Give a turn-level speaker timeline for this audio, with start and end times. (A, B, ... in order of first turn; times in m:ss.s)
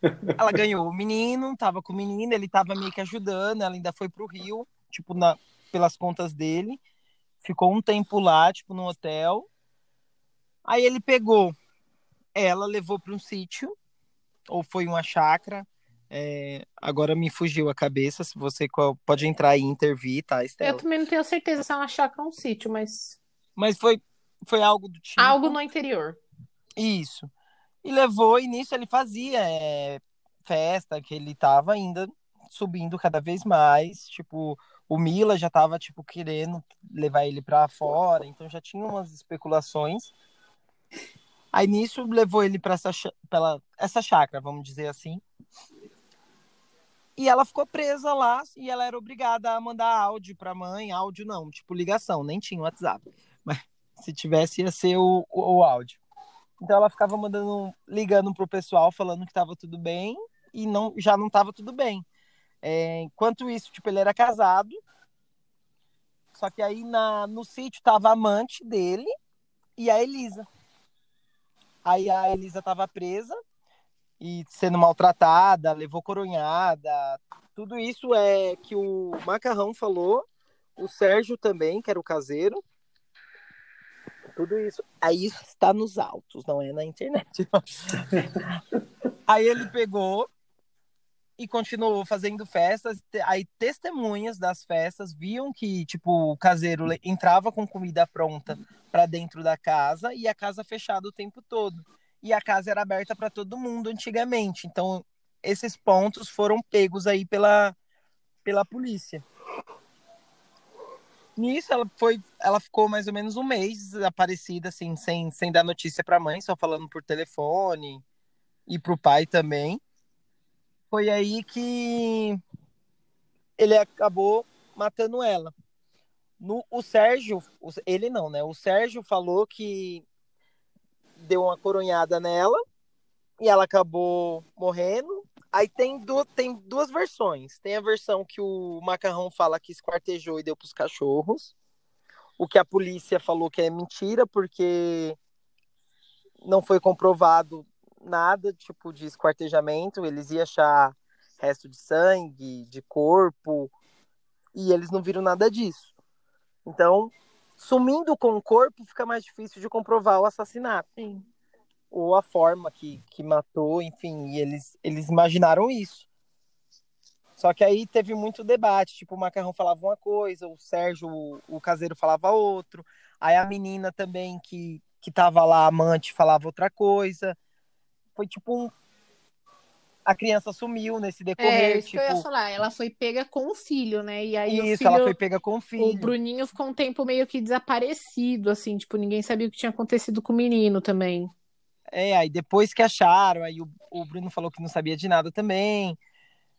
0:00.4-0:06.8 A
0:07.4-0:09.5 A
0:10.6-0:11.6 A
0:12.4-0:13.7 A
0:14.5-0:20.8 A
0:20.6-0:23.2 B
0:23.6-0:25.6 A
0:25.2-0:26.2 B
0:26.8-0:27.3 A
0:27.8-0:40.1 A
0:41.5-0:45.2 A
0:47.2-0:56.0 A
0:56.6-1:02.0 A
1:02.6-1:04.7 A
1:06.3-1:09.1 A
1:09.8-1:10.5 A
1:11.8-1:13.4 A
1:14.2-1:20.2 A
1:20.8-1:22.6 A
1:24.3-1:28.0 A
1:29.3-1:30.3 A
1:31.4-1:47.7 A
1:48.4-1:49.2 A
1:51.4-1:58.0 A
1:58.7-1:59.8 A
2:00.9-2:02.4 A
2:03.6-2:05.5 A
2:06.4-2:10.0 A
2:11.2-2:12.6 A
2:13.4-2:21.5 A
2:22.4-2:25.2 A
2:26.4-2:33.7 A
2:34.5-2:35.9 A
2:36.6-2:40.9 A
2:41.0-2:41.3 B
2:41.9-2:46.0 A
2:47.4-2:57.4 A
2:58.2-2:58.7 A
3:00.0-3:02.2 A
3:01.4-3:05.2 B
3:04.5-3:06.1 A
3:05.8-3:11.3 B
3:11.9-3:16.0 A